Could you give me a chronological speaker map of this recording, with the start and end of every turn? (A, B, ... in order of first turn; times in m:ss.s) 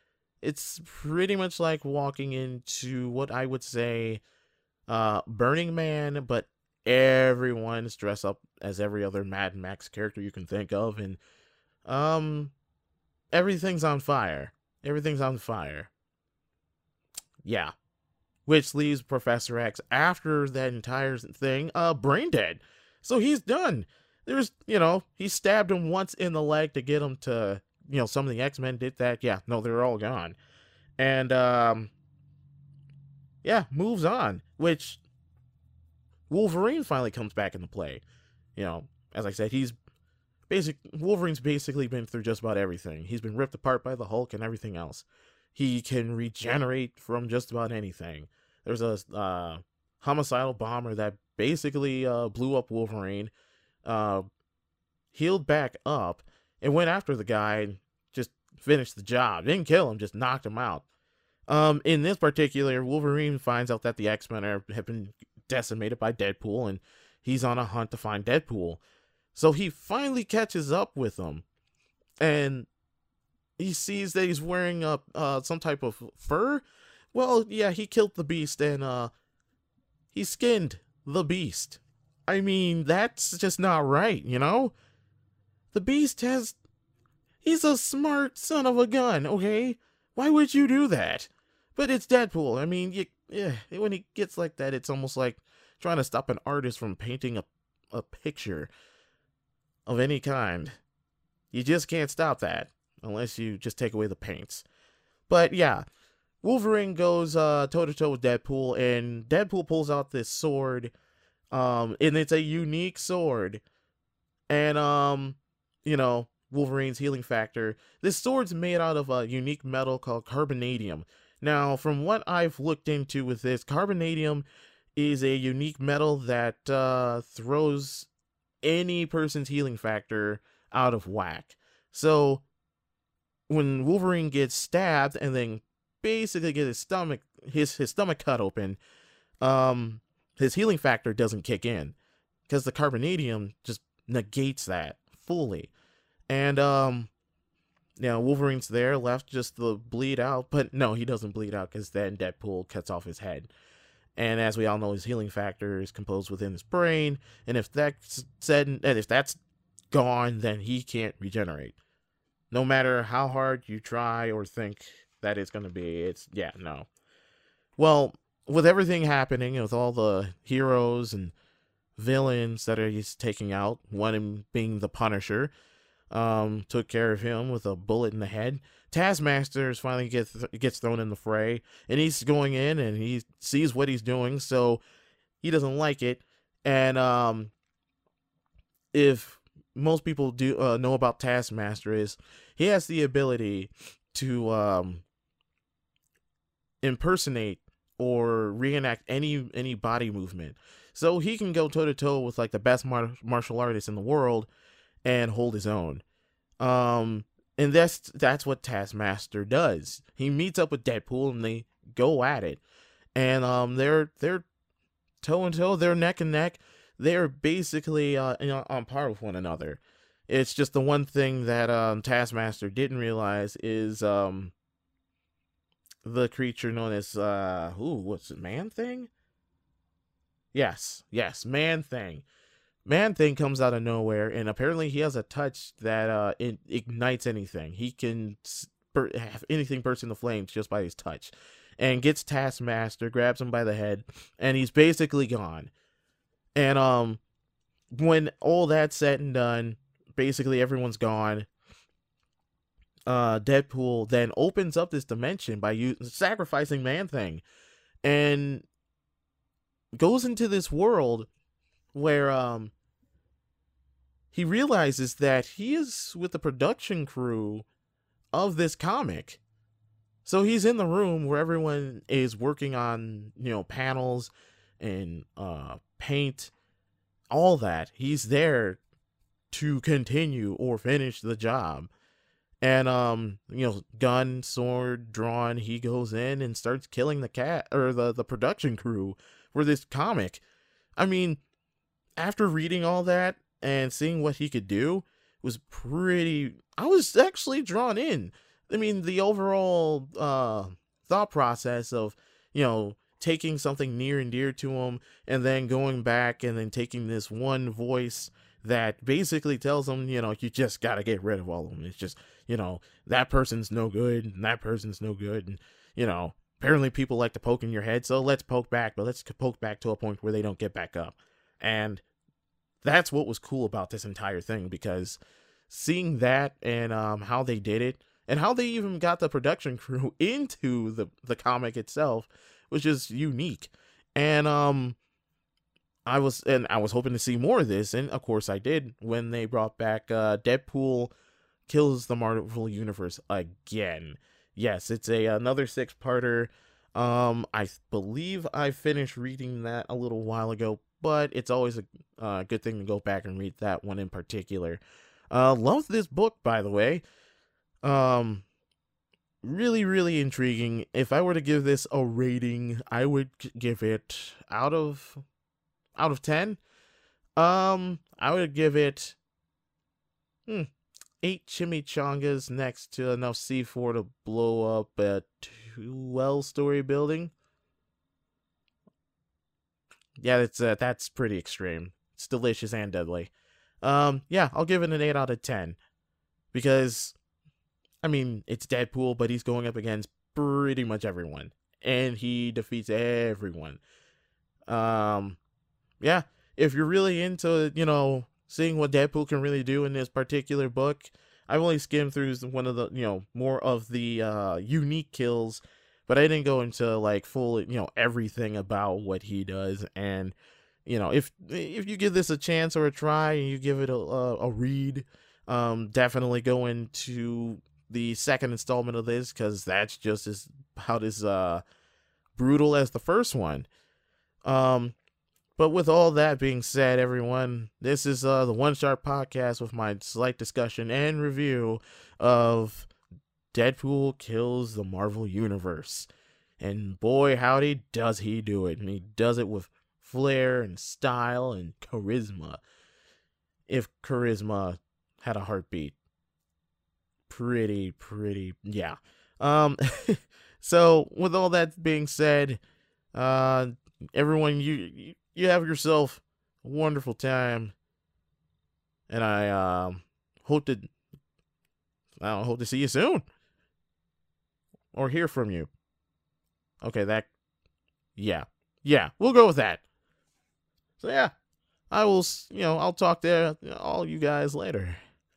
0:00.4-0:04.2 A
0:04.9-0:11.2 A
0:11.8-0:12.5 A
0:13.3-0:15.9 A
0:17.4-0:17.7 A
0:18.4-0:30.4 A
0:31.0-0:31.9 A
0:33.4-0:35.0 A
0:36.3-0:38.0 A
0:38.6-0:39.8 A
0:40.5-0:53.3 A
0:53.8-0:54.2 A
0:55.1-1:00.8 A
1:01.5-1:08.8 A
1:09.3-1:11.4 A
1:12.2-1:12.7 A
1:13.6-1:16.6 A
1:17.1-1:19.1 A
1:20.1-1:24.7 A
1:25.7-1:26.6 A
1:27.4-1:38.7 A
1:39.8-1:40.7 A
1:41.5-1:44.6 A
1:45.3-1:45.8 A
1:46.4-1:50.9 A
1:51.5-1:53.6 A
1:54.5-2:08.1 A
2:08.6-2:12.4 A
2:13.5-2:18.8 A
2:19.4-2:22.0 A
2:22.5-2:25.7 A
2:26.3-2:27.1 A
2:28.0-2:33.5 A
2:34.2-2:39.4 A
2:39.9-2:41.8 A
2:42.5-2:46.9 A
2:47.8-2:51.3 A
2:52.0-2:55.5 A
2:56.1-3:04.8 A
3:05.4-3:07.5 A
3:08.9-3:15.0 A
3:16.8-3:24.5 A
3:25.0-3:26.0 A
3:26.6-3:32.6 A
3:33.1-3:34.4 A
3:35.2-3:44.5 A
3:46.0-3:49.1 A
3:50.5-3:52.2 A
3:52.8-4:05.7 A
4:06.5-4:07.2 A
4:07.9-4:11.5 A
4:13.1-4:17.4 A
4:18.0-4:18.7 A
4:19.9-4:21.3 A
4:21.9-4:22.7 A
4:24.3-4:27.6 A
4:28.3-4:29.4 A
4:30.2-4:36.5 A
4:37.3-4:38.8 A
4:39.5-4:41.9 A
4:42.6-4:50.4 A
4:51.0-4:51.4 A
4:52.2-5:22.0 A
5:22.8-5:35.0 A
5:36.0-5:41.1 A
5:41.7-5:57.0 A
5:57.8-5:58.4 A
5:59.4-6:05.2 A
6:06.0-6:06.6 A
6:07.4-6:09.2 A
6:11.2-6:17.3 A
6:20.2-6:25.8 A
6:26.5-6:27.2 A
6:28.0-6:33.8 A
6:34.7-6:35.4 A
6:36.0-7:01.6 A
7:02.4-7:03.7 A
7:04.4-7:04.9 A
7:05.6-7:12.9 A
7:13.5-7:16.1 A
7:16.6-7:22.6 A
7:23.7-7:26.0 A
7:27.3-7:32.6 A
7:33.1-7:37.7 A
7:39.1-7:40.9 A
7:42.2-7:43.2 A
7:44.9-7:45.7 A
7:46.8-7:47.3 A
7:48.2-7:49.8 A
7:51.0-7:51.3 A
7:51.9-7:55.0 A